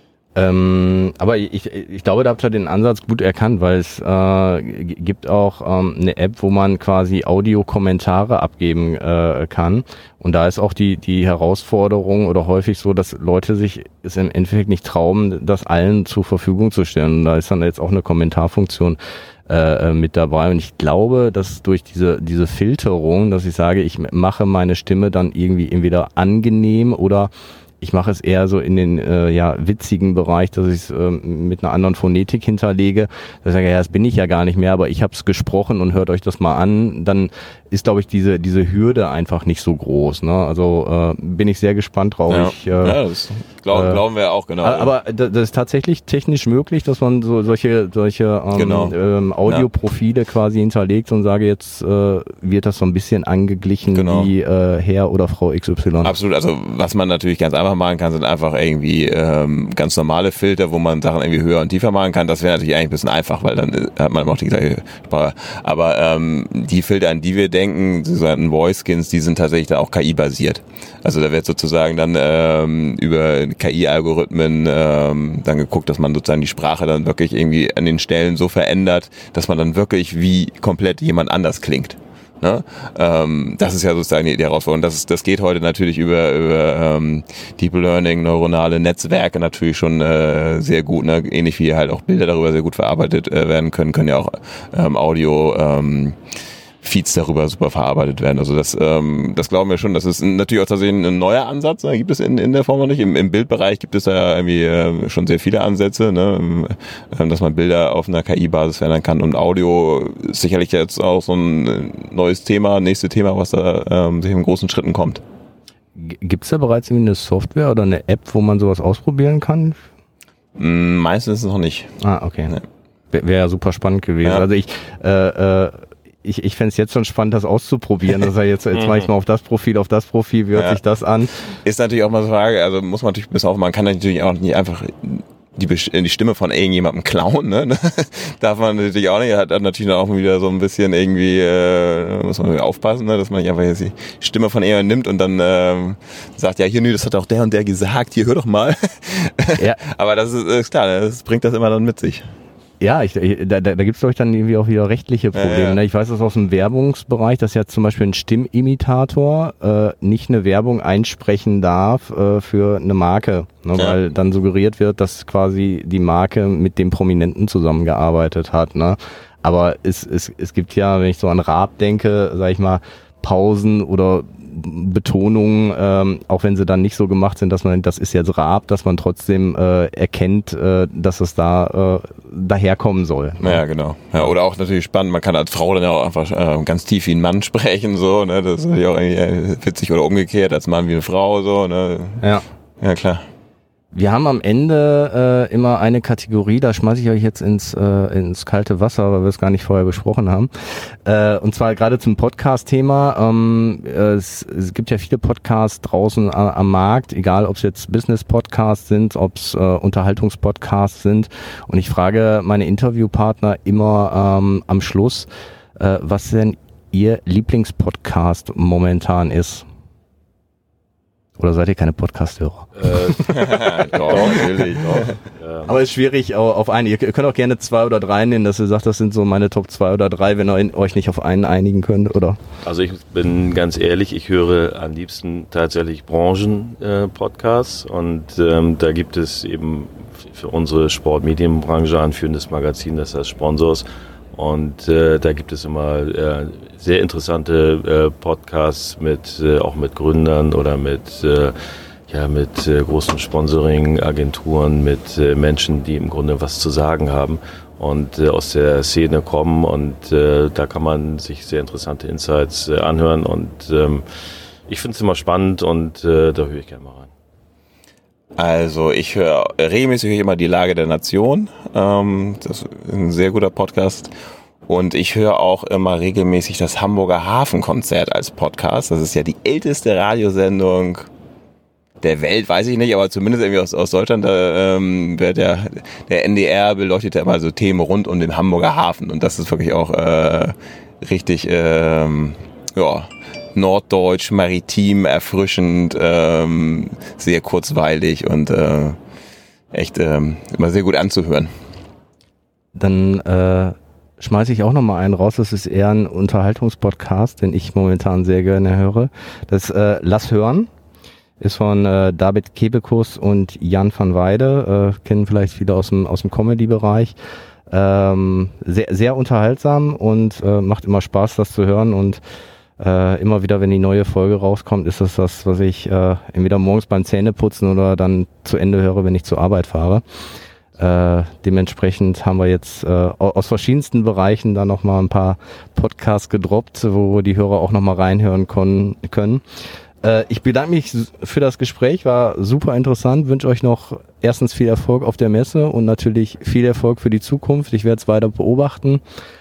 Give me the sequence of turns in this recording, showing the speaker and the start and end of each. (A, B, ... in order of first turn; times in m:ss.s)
0:00.4-0:43.0 A
0:42.3-0:44.9 B
0:43.7-0:44.0 A
0:44.6-0:56.1 A
0:48.6-0:48.9 B
0:53.9-0:54.3 B
0:56.0-1:36.2 B
1:36.8-1:55.2 B
1:56.0-1:59.8 A
2:00.6-2:01.9 B
2:02.0-2:02.6 A
2:03.1-2:11.3 A
2:11.6-2:32.3 B
2:32.8-3:03.6 A
2:35.4-2:35.8 B
3:03.4-3:12.2 B
3:12.8-3:13.2 B
3:13.9-3:39.6 A
3:41.4-3:43.2 A
3:42.8-3:45.8 C
3:43.2-3:45.1 B
3:44.1-3:44.5 A
3:45.7-3:52.4 A
3:52.6-4:11.6 C
4:12.1-4:24.0 C
4:24.7-4:27.1 C
4:28.4-4:34.1 B
4:34.7-4:41.1 B
4:42.0-4:59.0 B
4:59.7-5:01.5 B
5:02.8-5:10.7 A
5:11.4-5:17.2 A
5:17.7-5:22.2 A
5:22.8-5:30.0 A
5:30.8-5:39.4 A
5:40.0-5:49.0 A